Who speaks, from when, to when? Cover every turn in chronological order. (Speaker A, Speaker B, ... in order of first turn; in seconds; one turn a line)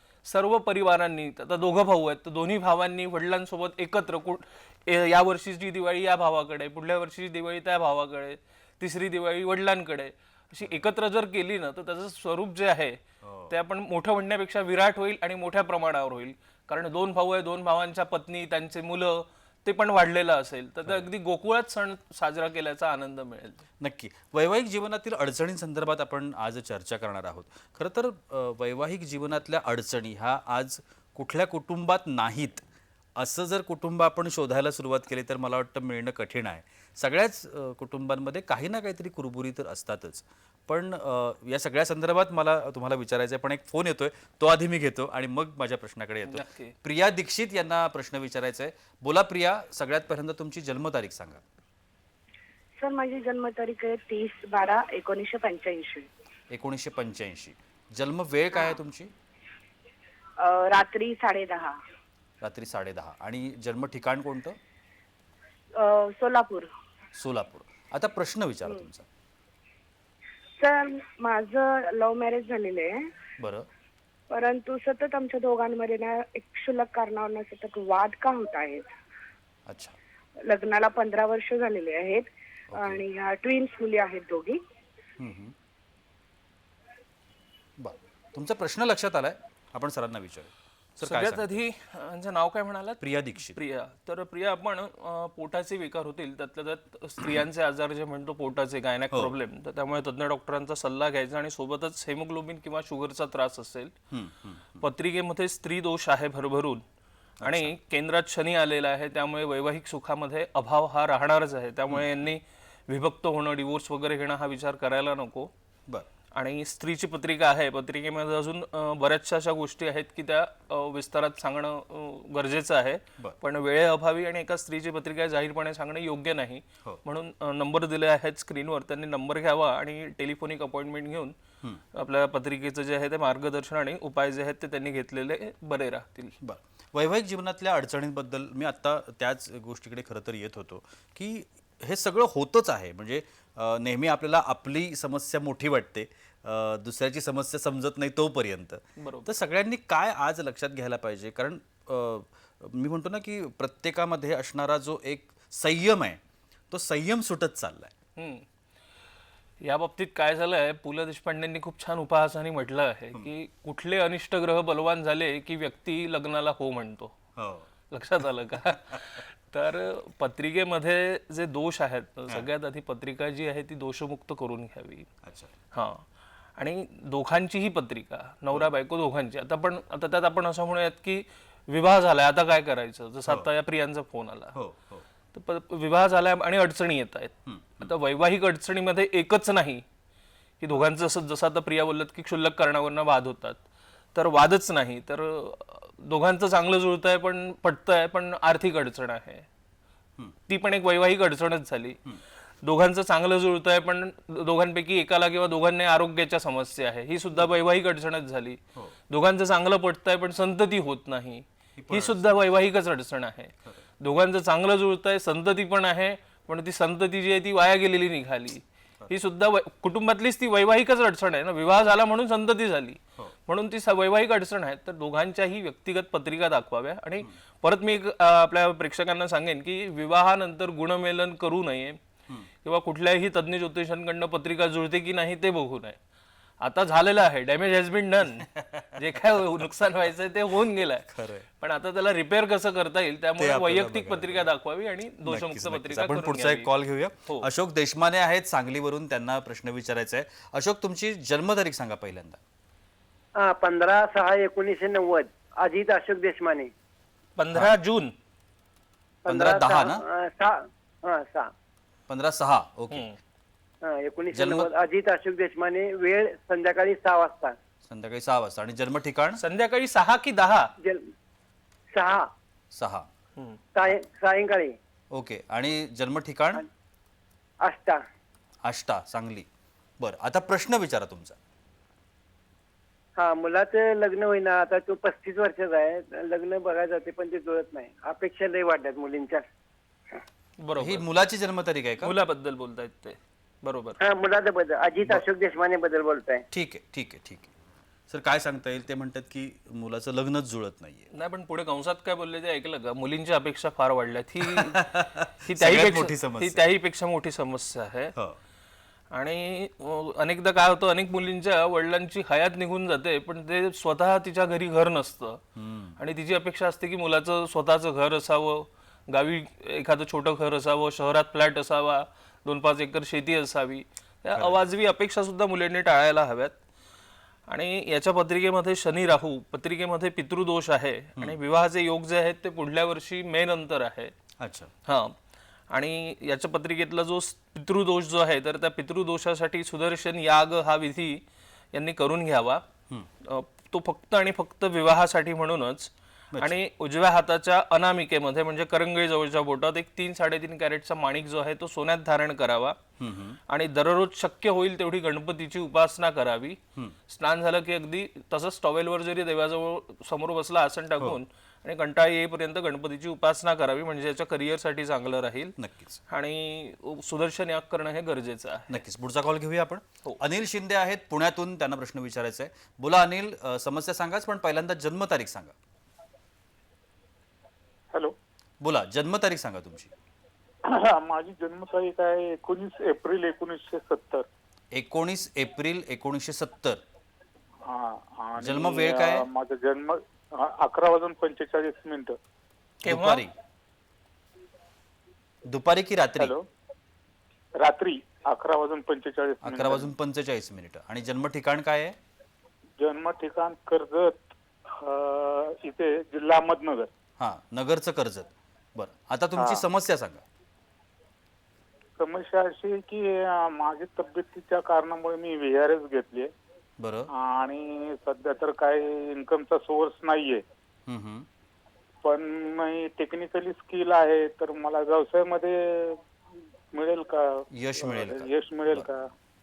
Speaker A: 0.2-23.6
Speaker B: 13.2-13.5
Speaker B: 23.8-51.4
Speaker A: 46.3-46.7
Speaker C: 52.8-56.1
Speaker B: 56.5-59.1
Speaker C: 60.4-61.8
Speaker B: 62.4-64.6
Speaker C: 65.8-66.7
Speaker B: 67.2-69.0
Speaker C: 70.6-73.1
Speaker B: 73.4-73.7
Speaker C: 74.3-78.9
Speaker B: 79.7-80.0
Speaker C: 80.4-84.6
Speaker B: 82.7-83.0
Speaker B: 85.2-85.5
Speaker B: 87.8-91.6
Speaker A: 91.0-103.9
Speaker B: 93.0-93.6
Speaker B: 104.1-104.8
Speaker A: 104.8-106.8
Speaker B: 107.4-107.8
Speaker A: 107.4-115.5
Speaker A: 116.3-131.3
Speaker A: 131.9-136.3
Speaker B: 136.4-156.2
Speaker A: 149.0-149.3
Speaker B: 156.7-157.9
Speaker A: 158.2-158.4
Speaker A: 159.6-167.1
Speaker B: 167.3-167.7
Speaker A: 167.9-175.1
Speaker B: 168.9-169.2
Speaker B: 175.2-175.5
Speaker A: 175.7-176.0
Speaker A: 176.6-184.6
Speaker B: 184.5-185.0
Speaker A: 185.3-189.8
Speaker B: 187.4-187.9
Speaker A: 190.6-193.6
Speaker A: 194.1-199.4
Speaker A: 200.5-202.0
Speaker A: 202.6-232.0
Speaker B: 211.8-212.3
Speaker A: 232.6-236.0
Speaker A: 236.6-241.1
Speaker B: 238.4-239.2
Speaker B: 241.1-241.4
Speaker A: 241.6-246.7
Speaker B: 243.4-244.5
Speaker B: 245.2-252.4
Speaker D: 253.4-256.7
Speaker A: 257.4-258.1
Speaker D: 259.2-261.5
Speaker B: 259.2-260.0
Speaker B: 262.1-263.1
Speaker A: 262.9-263.2
Speaker D: 263.8-267.6
Speaker B: 264.3-264.7
Speaker B: 267.8-269.4
Speaker A: 269.4-270.7
Speaker D: 270.8-271.1
Speaker D: 271.9-272.3
Speaker B: 272.7-273.1
Speaker D: 273.7-274.8
Speaker B: 275.1-276.6
Speaker D: 277.6-278.0
Speaker B: 278.6-279.5
Speaker B: 280.0-281.4
Speaker D: 283.2-289.4
Speaker A: 290.6-291.0
Speaker B: 290.8-292.1
Speaker A: 292.0-294.0
Speaker D: 294.0-296.4
Speaker B: 296.5-297.5
Speaker B: 298.1-301.1
Speaker A: 301.1-304.8
Speaker B: 304.4-306.6
Speaker A: 305.5-308.1
Speaker A: 309.1-315.4
Speaker B: 315.6-316.0
Speaker A: 316.0-326.6
Speaker B: 324.4-324.6
Speaker A: 327.5-334.1
Speaker B: 334.4-334.7
Speaker A: 334.9-335.1
Speaker A: 335.7-342.6
Speaker A: 343.2-352.8
Speaker B: 346.3-346.6
Speaker B: 353.0-353.4
Speaker A: 353.5-365.5
Speaker B: 365.6-366.0
Speaker A: 366.1-368.8
Speaker B: 368.7-375.5
Speaker B: 378.6-379.9
Speaker E: 380.6-384.2
Speaker B: 384.7-386.8
Speaker E: 387.6-392.2
Speaker B: 388.4-389.2
Speaker A: 392.8-393.2
Speaker B: 392.9-393.3
Speaker B: 395.4-396.3
Speaker E: 396.2-396.5
Speaker E: 397.6-399.9
Speaker B: 399.4-402.0
Speaker E: 402.8-406.9
Speaker B: 407.2-410.2
Speaker E: 409.4-409.6
Speaker E: 412.0-416.3
Speaker B: 416.8-417.1
Speaker E: 417.1-420.4
Speaker B: 420.9-421.3
Speaker E: 422.0-426.0
Speaker E: 426.7-429.1
Speaker B: 427.5-428.9